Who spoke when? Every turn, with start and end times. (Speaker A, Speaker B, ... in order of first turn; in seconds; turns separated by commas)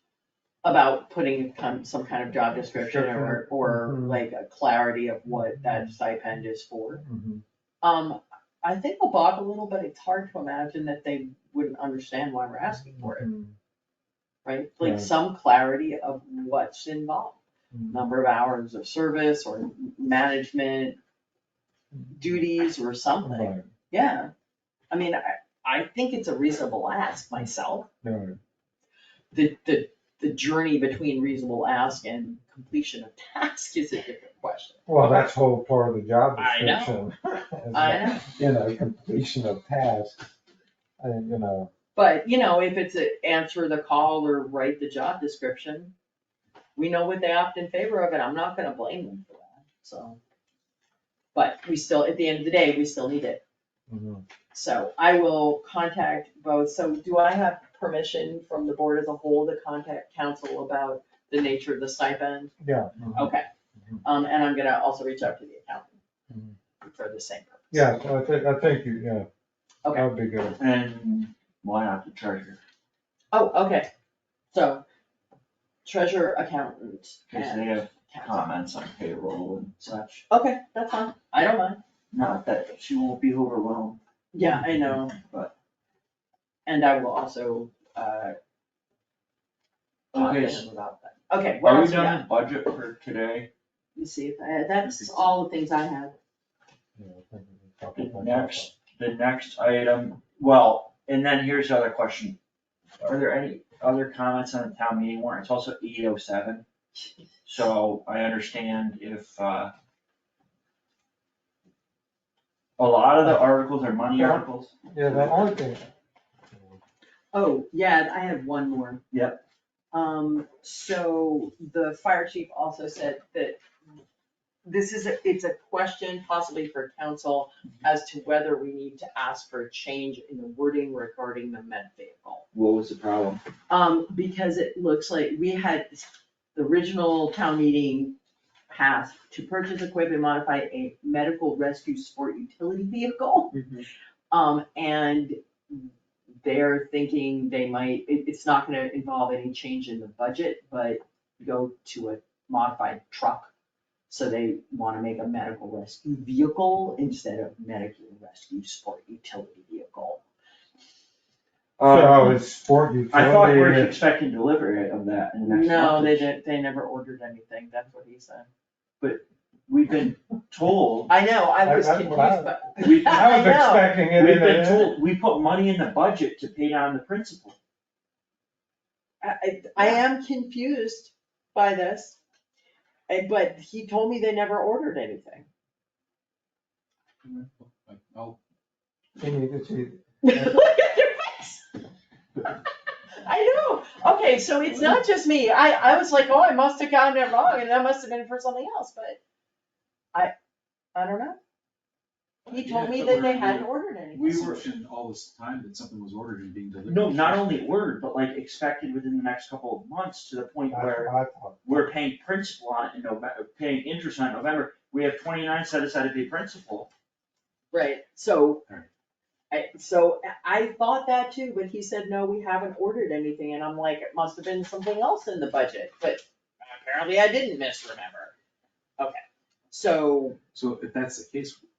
Speaker A: 0.6-7.0, Speaker B: 2.7-4.2, Speaker B: 5.3-5.9, Speaker B: 7.0-7.4, Speaker A: 7.8-13.3, Speaker B: 13.0-13.6, Speaker A: 14.4-17.4, Speaker B: 14.8-15.1, Speaker B: 17.7-18.0, Speaker A: 17.9-21.0, Speaker A: 22.1-24.3, Speaker B: 23.2-23.7, Speaker A: 24.9-27.9, Speaker B: 28.0-28.4, Speaker A: 29.3-34.8, Speaker B: 34.9-40.2, Speaker A: 36.4-36.9, Speaker A: 37.7-38.3, Speaker B: 41.0-41.7, Speaker A: 42.0-45.9, Speaker A: 46.8-50.2, Speaker A: 51.4-53.4, Speaker B: 53.9-54.2, Speaker A: 54.5-62.5, Speaker B: 62.6-64.0, Speaker A: 63.1-63.5, Speaker A: 64.0-66.0, Speaker B: 66.3-66.6, Speaker A: 66.8-67.9, Speaker B: 67.7-69.3, Speaker B: 69.9-70.6, Speaker C: 70.6-72.6, Speaker A: 73.3-73.9, Speaker A: 74.5-74.8, Speaker A: 75.8-78.5, Speaker C: 77.3-80.2, Speaker A: 80.3-81.8, Speaker C: 82.1-84.0, Speaker A: 84.3-85.1, Speaker B: 84.5-84.9, Speaker C: 85.1-85.5, Speaker A: 86.7-88.4, Speaker C: 90.1-90.7, Speaker A: 90.1-92.3, Speaker C: 91.6-93.5, Speaker A: 94.0-96.2, Speaker D: 94.8-95.2, Speaker B: 97.0-98.7, Speaker C: 98.0-102.4, Speaker C: 103.0-106.7, Speaker C: 107.5-109.7, Speaker C: 112.8-115.5, Speaker B: 114.1-115.9, Speaker A: 117.3-119.0, Speaker C: 119.1-119.4, Speaker A: 119.9-123.6, Speaker A: 124.6-132.4, Speaker C: 132.5-133.4, Speaker A: 133.7-138.2, Speaker A: 138.7-143.5, Speaker C: 143.5-143.8, Speaker A: 144.3-145.9, Speaker A: 146.4-153.5, Speaker A: 154.1-160.2, Speaker C: 161.8-162.4, Speaker B: 161.8-163.9, Speaker C: 163.1-166.3, Speaker A: 165.5-168.5, Speaker C: 169.0-171.1, Speaker A: 171.1-173.9, Speaker B: 171.7-175.0, Speaker C: 172.8-173.5, Speaker C: 174.1-177.6, Speaker A: 179.2-182.2, Speaker A: 183.1-185.5, Speaker D: 187.2-188.4, Speaker B: 189.2-190.5, Speaker A: 190.2-191.7, Speaker A: 193.2-199.2, Speaker A: 200.9-201.4, Speaker D: 202.5-207.5, Speaker A: 202.5-204.6, Speaker C: 204.2-204.7, Speaker C: 206.9-211.1, Speaker B: 210.7-211.9, Speaker C: 211.6-216.9, Speaker A: 217.7-218.6, Speaker A: 219.5-228.3, Speaker A: 229.0-230.4, Speaker D: 230.5-231.6